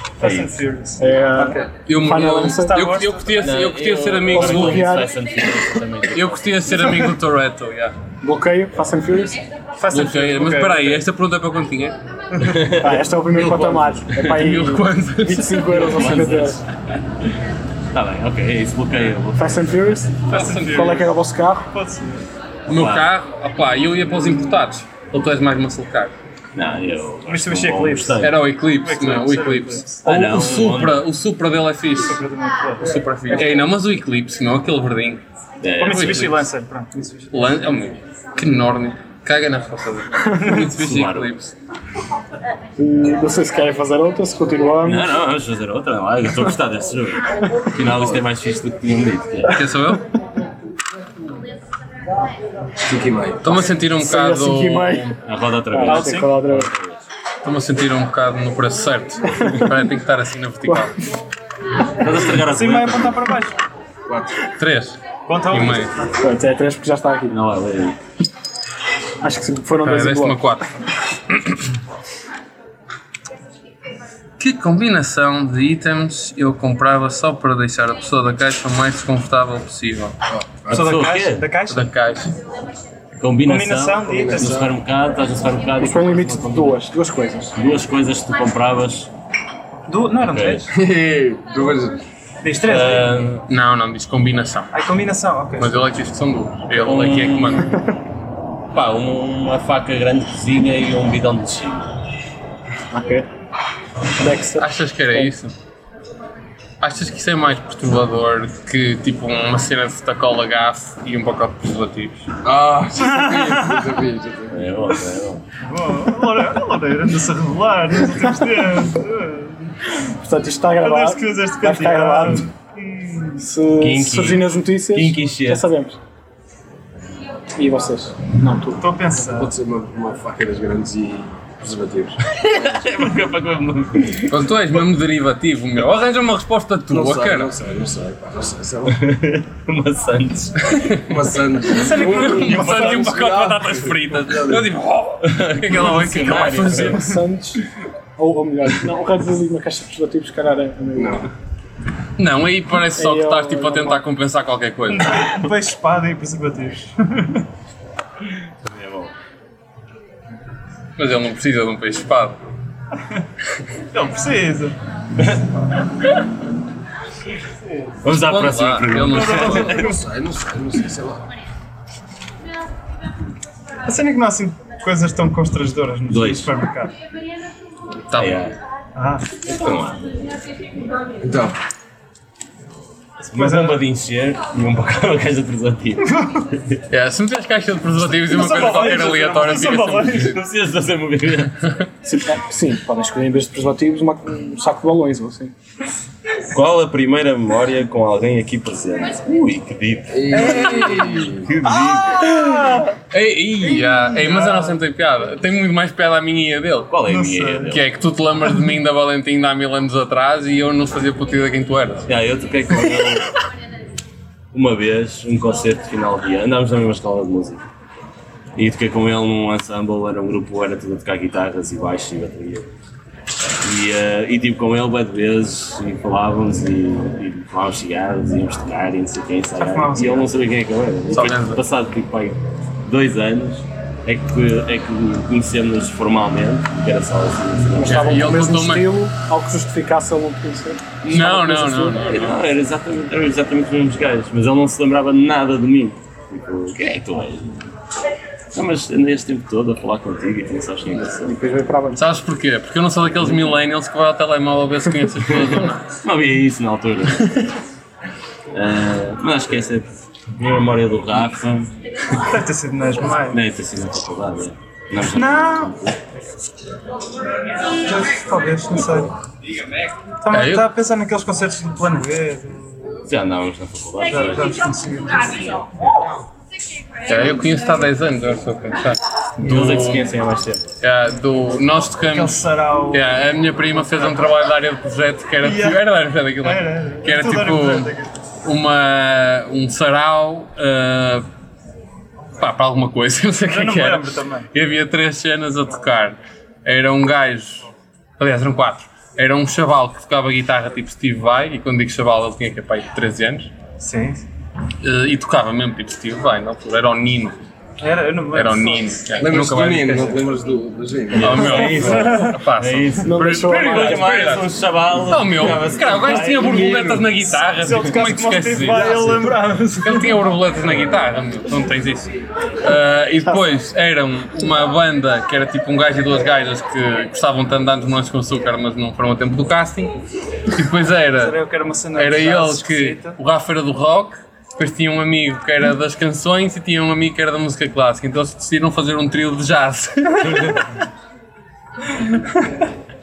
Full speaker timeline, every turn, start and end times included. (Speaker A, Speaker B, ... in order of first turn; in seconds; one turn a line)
Speaker A: 0.2-1.7
Speaker B: 0.2-0.6
Speaker C: 1.0-2.8
Speaker D: 1.9-5.0
Speaker A: 2.6-3.2
Speaker B: 3.4-6.6
Speaker C: 4.3-5.1
Speaker D: 6.1-8.0
Speaker C: 8.2-9.4
Speaker A: 9.8-11.0
Speaker D: 9.9-12.0
Speaker B: 12.4-14.7
Speaker C: 12.7-16.6
Speaker D: 14.2-16.1
Speaker B: 15.6-17.4
Speaker B: 17.9-20.6
Speaker C: 19.4-21.7
Speaker A: 20.3-21.1
Speaker D: 20.3-21.0
Speaker A: 21.7-22.3
Speaker D: 22.7-26.1
Speaker B: 22.7-23.1
Speaker B: 26.5-28.4
Speaker A: 27.2-30.1
Speaker D: 28.2-32.2
Speaker B: 30.1-31.0
Speaker A: 32.0-33.6
Speaker D: 32.8-35.2
Speaker B: 35.6-36.5
Speaker A: 35.8-37.4
Speaker D: 35.8-36.4
Speaker D: 37.3-41.5
Speaker A: 40.3-40.7
Speaker B: 40.8-41.3
Speaker C: 42.8-45.1
Speaker B: 44.8-49.6
Speaker E: 47.8-48.2
Speaker D: 49.5-50.0
Speaker E: 52.8-53.5
Speaker D: 53.4-55.2
Speaker C: 54.0-55.1
Speaker B: 55.2-57.0
Speaker C: 55.7-56.7
Speaker A: 55.9-56.4
Speaker D: 57.4-61.0
Speaker C: 59.4-59.7
Speaker B: 61.9-63.3
Speaker A: 62.5-63.6
Speaker E: 64.1-64.5
Speaker D: 64.6-65.9
Speaker A: 65.3-66.2
Speaker C: 66.2-67.4
Speaker B: 67.3-68.0
Speaker C: 69.2-70.4
Speaker D: 69.8-70.7
Speaker D: 71.3-71.7
Speaker D: 74.4-80.2
Speaker E: 80.3-81.0
Speaker B: 80.7-81.5
Speaker A: 80.7-81.9
Speaker D: 81.7-82.4
Speaker B: 83.2-86.8
Speaker A: 83.5-84.6
Speaker E: 84.1-84.7
Speaker C: 85.8-87.5
Speaker B: 87.6-89.1
Speaker A: 89.9-90.7
Speaker B: 90.2-90.7
Speaker E: 90.7-92.0
Speaker A: 92.4-93.1
Speaker B: 92.6-93.5
Speaker D: 93.5-94.7
Speaker A: 94.7-95.8
Speaker D: 95.6-97.8
Speaker B: 96.8-97.8
Speaker B: 98.7-101.9
Speaker C: 102.9-103.3
Speaker C: 104.2-105.3
Speaker D: 104.6-105.5
Speaker D: 106.8-112.3
Speaker E: 112.4-114.6
Speaker A: 113.0-113.9
Speaker B: 114.5-115.5
Speaker A: 115.6-119.7
Speaker C: 120.0-122.5
Speaker A: 120.8-123.5
Speaker C: 123.4-126.0
Speaker B: 123.8-125.7
Speaker C: 127.6-128.8
Speaker A: 128.8-129.5
Speaker E: 129.3-132.2
Speaker B: 132.2-134.5
Speaker D: 134.3-137.5
Speaker E: 136.9-139.1
Speaker B: 138.9-140.8
Speaker D: 140.8-141.0
Speaker E: 141.0-144.7
Speaker D: 141.7-147.1
Speaker A: 141.7-143.2
Speaker B: 145.2-147.2
Speaker C: 146.8-147.6
Speaker C: 148.2-151.3
Speaker E: 150.9-151.3
Speaker D: 152.2-155.1
Speaker C: 152.9-154.0
Speaker A: 154.9-157.4
Speaker B: 158.5-159.1
Speaker D: 161.0-162.4
Speaker A: 163.9-164.8
Speaker B: 168.0-170.0
Speaker D: 168.1-169.8
Speaker A: 169.1-169.8
Speaker E: 169.2-171.3
Speaker A: 173.8-176.9
Speaker B: 176.1-176.5
Speaker D: 178.1-178.4
Speaker B: 178.2-178.6
Speaker A: 179.0-179.3
Speaker B: 179.3-180.3
Speaker E: 181.2-181.6
Speaker B: 183.3-186.8
Speaker A: 183.3-183.8
Speaker D: 186.9-190.4
Speaker A: 188.3-190.4
Speaker B: 189.9-191.8
Speaker C: 192.0-195.6
Speaker B: 196.5-202.8
Speaker E: 200.1-201.5
Speaker A: 201.8-202.8
Speaker D: 203.1-206.9
Speaker A: 203.8-204.8
Speaker B: 206.9-207.9
Speaker A: 207.1-207.7
Speaker D: 207.7-212.1
Speaker B: 212.1-213.3
Speaker B: 214.5-217.6
Speaker B: 218.6-222.7
Speaker B: 223.5-238.3
Speaker A: 229.6-230.3
Speaker D: 231.1-231.6
Speaker C: 237.8-242.0
Speaker D: 237.8-238.9
Speaker D: 241.0-242.4
Speaker B: 241.1-247.7
Speaker B: 248.5-251.4
Speaker C: 251.1-252.0
Speaker D: 252.0-255.9
Speaker B: 255.2-257.5
Speaker B: 258.5-261.7
Speaker A: 262.2-263.4
Speaker B: 263.3-266.0
Speaker A: 265.1-265.8
Speaker A: 267.7-269.1
Speaker A: 270.2-272.7
Speaker D: 270.3-270.7
Speaker B: 273.1-274.7
Speaker A: 274.1-275.3
Speaker B: 275.2-276.1
Speaker D: 277.1-280.1
Speaker B: 279.4-280.7
Speaker D: 280.8-291.3
Speaker A: 282.0-283.1
Speaker A: 285.4-285.8
Speaker A: 286.4-288.1
Speaker D: 292.4-297.7
Speaker A: 293.5-294.5
Speaker D: 298.2-303.5
Speaker A: 303.8-304.2
Speaker D: 304.8-307.4
Speaker A: 307.8-309.1
Speaker D: 308.3-310.3
Speaker E: 309.2-311.9
Speaker D: 311.1-314.5
Speaker B: 311.1-317.1
Speaker A: 311.9-312.3
Speaker C: 313.0-314.3
Speaker D: 315.0-319.1
Speaker A: 317.6-320.2
Speaker D: 319.8-330.0
Speaker D: 330.5-331.4
Speaker A: 331.1-333.2
Speaker D: 331.9-340.8
Speaker B: 340.3-340.6
Speaker D: 341.9-342.6